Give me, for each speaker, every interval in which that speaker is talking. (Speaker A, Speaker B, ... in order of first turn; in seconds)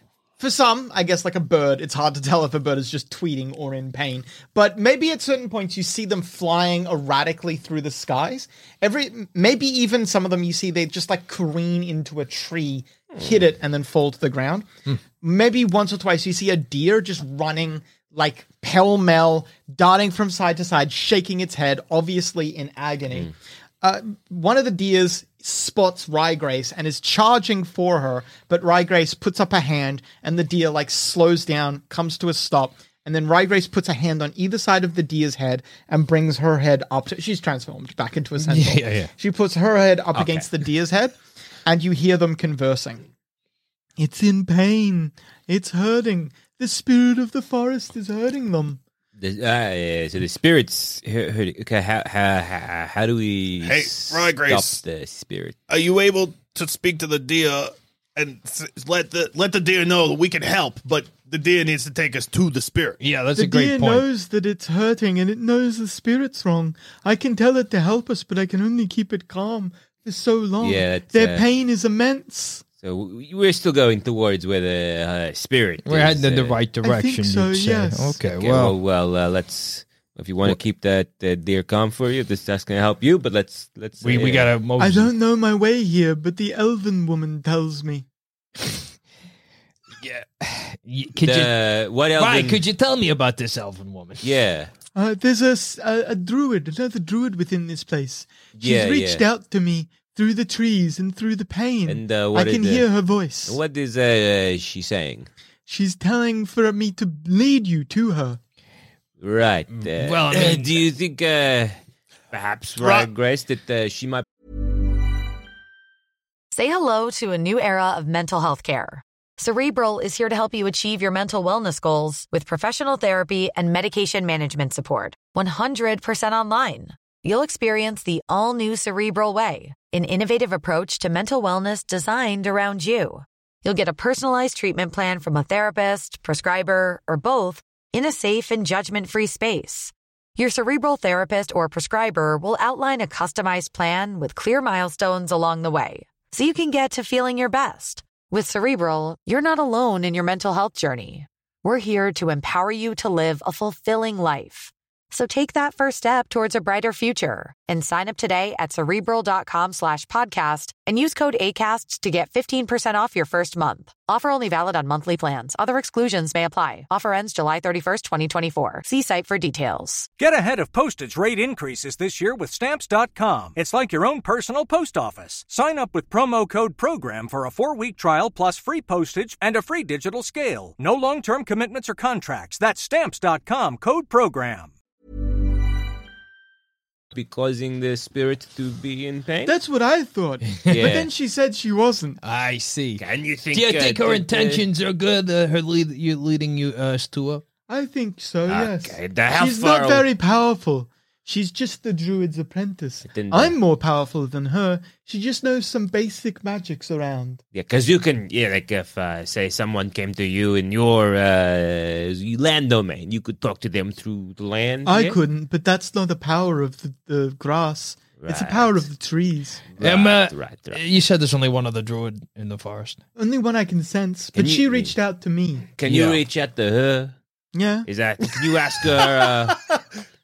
Speaker A: 0.4-43.0, 44.0-48.8, 63.4-72.6, 76.8-78.2, 84.8-88.1, 95.0-103.6, 105.7-108.4, 189.4-192.2, 197.7-207.4, 214.9-219.6, 223.2-225.7, 227.5-227.9, 229.5-229.8
Speaker B: 38.4-39.1, 63.0-64.1, 75.8-78.8, 84.0-85.1, 90.0-94.2, 109.8-110.9, 192.2-197.4, 219.8-223.0, 225.9-226.2
Speaker C: 40.1-40.5, 49.2-55.6, 70.6-71.5, 72.8-76.6, 78.3-84.5, 91.2-92.6, 94.2-94.7, 98.6-99.2, 101.9-102.9, 103.5-105.3, 109.2-111.8, 112.3-114.2, 187.1-189.6, 190.7-191.1, 193.0-194.7, 198.5-200.1, 203.1-203.6, 207.5-215.2, 218.2-218.9, 219.7-220.8, 224.3-224.9, 225.8-227.2, 227.8-229.6
Speaker D: 53.6-54.8, 55.7-63.0, 112.8-113.1
Speaker E: 116.5-170.1
Speaker F: 170.2-184.7